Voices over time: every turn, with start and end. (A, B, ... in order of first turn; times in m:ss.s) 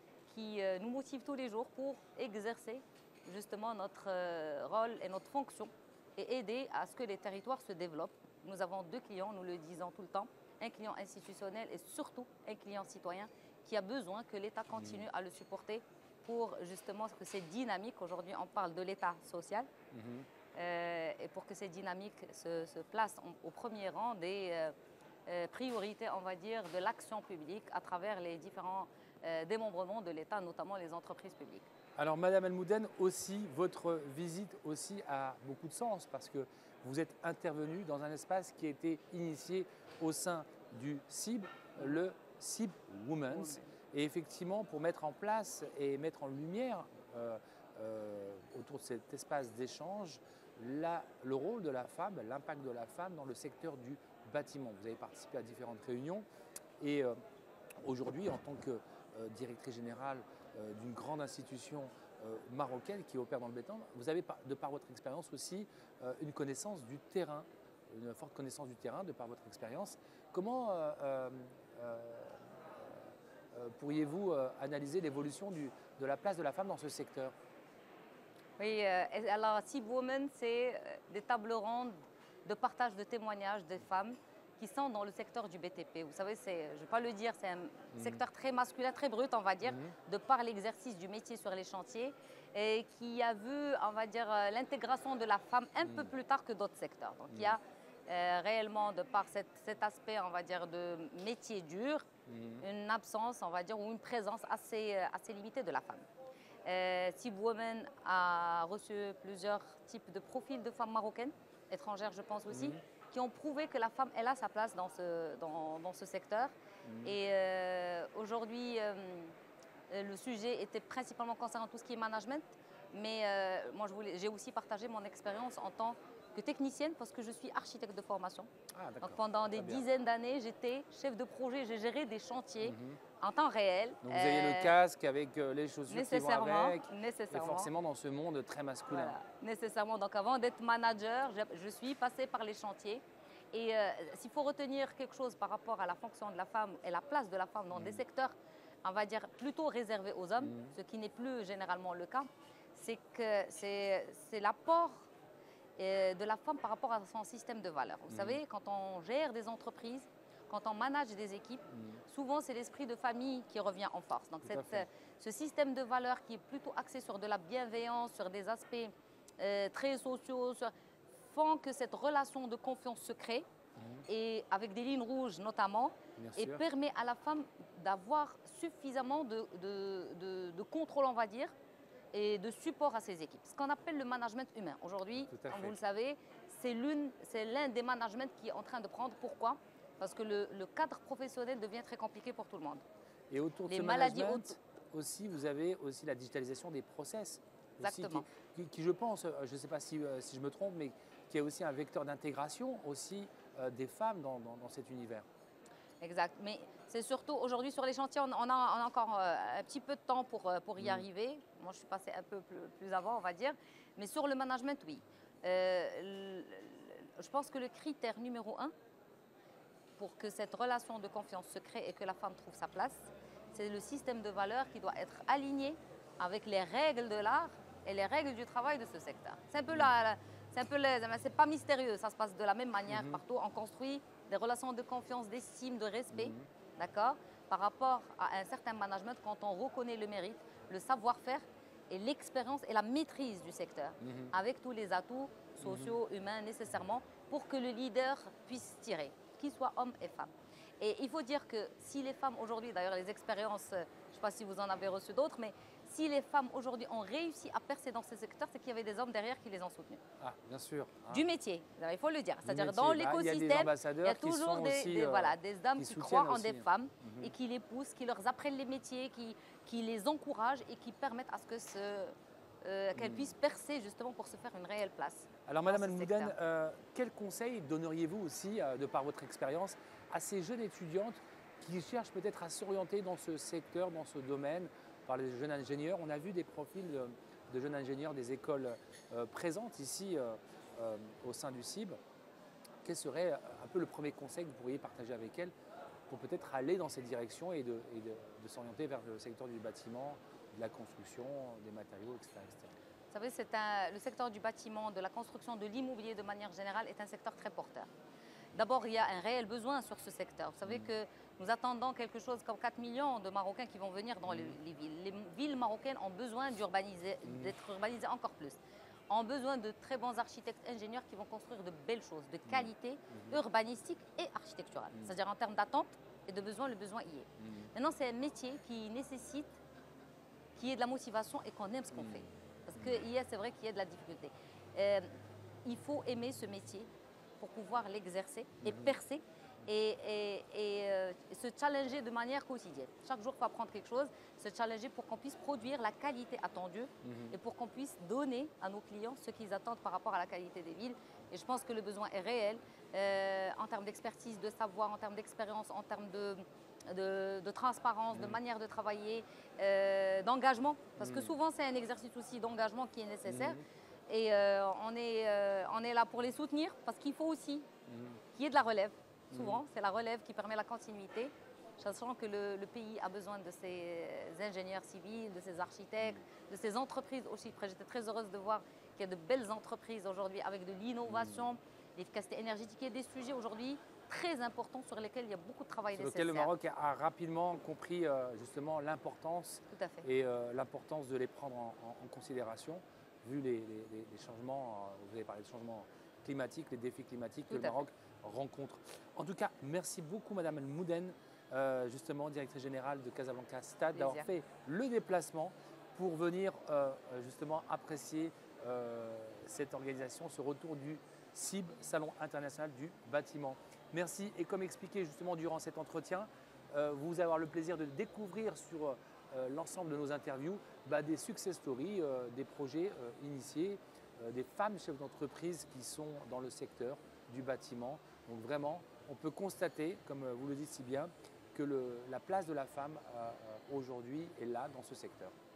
0:00.3-0:19.7 A
0:14.7-0:15.1 B
0:19.9-0:20.3 B
0:20.5-0:24.7 A
0:25.3-0:31.7 A
0:32.0-0:56.3 B
0:43.3-0:43.7 A
0:56.8-0:57.1 B
0:57.8-1:17.3 B
1:18.6-1:42.1 A
1:27.9-1:28.2 B
1:29.6-1:30.0 B
1:35.8-1:36.1 B
1:37.3-1:37.6 B
1:42.3-1:42.6 B
1:42.6-1:46.0 A
1:46.6-1:59.4 A
1:52.5-1:52.8 B
1:56.8-1:57.2 B
1:59.9-2:08.5 A
2:08.7-2:09.9 B
2:09.0-2:14.8 A
2:12.6-2:13.0 B
2:14.0-2:19.2 B
2:15.9-2:17.7 A
2:18.9-2:35.1 A
2:27.7-2:28.0 B
2:30.4-2:30.8 B
2:35.8-2:53.5 A
2:38.1-2:38.4 B
2:41.7-2:42.0 B
2:44.4-2:44.9 B
2:53.8-2:54.0 B
2:54.1-3:01.5 A
2:56.2-2:56.6 B
3:02.1-3:12.8 A
3:05.2-3:05.8 B
3:13.3-3:25.3 B
3:13.7-3:14.6 A
3:17.8-3:18.3 A
3:26.0-3:38.7 A
3:30.8-3:31.0 B
3:40.0-4:20.0 A
3:52.9-3:53.2 B
3:56.1-3:56.5 B
4:04.0-4:04.3 B
4:05.6-4:06.0 B
4:20.2-4:21.3 B
4:21.1-4:36.4 A
4:22.4-4:27.3 B
4:32.9-4:33.4 B
4:35.5-4:52.0 B
4:52.8-4:55.5 B
4:56.1-5:02.7 B
5:03.1-5:07.9 A
5:08.6-5:18.6 A
5:10.7-5:10.9 B
5:14.2-5:14.6 B
5:17.3-5:17.6 B
5:19.1-5:29.6 A
5:22.5-5:23.4 B
5:27.4-5:27.7 B
5:30.6-5:35.1 A
5:31.9-5:33.0 B
5:35.6-6:07.7 A
5:38.6-5:39.0 B
5:47.0-5:47.4 B
5:58.1-5:58.4 B
6:01.0-6:01.4 B
6:03.3-6:03.6 B
6:07.9-6:08.2 B
6:08.3-6:26.5 A
6:09.3-6:09.6 B
6:21.0-6:21.5 B
6:25.9-7:15.3 B
6:29.7-6:30.1 A
6:37.5-6:37.8 A
6:43.9-6:44.3 A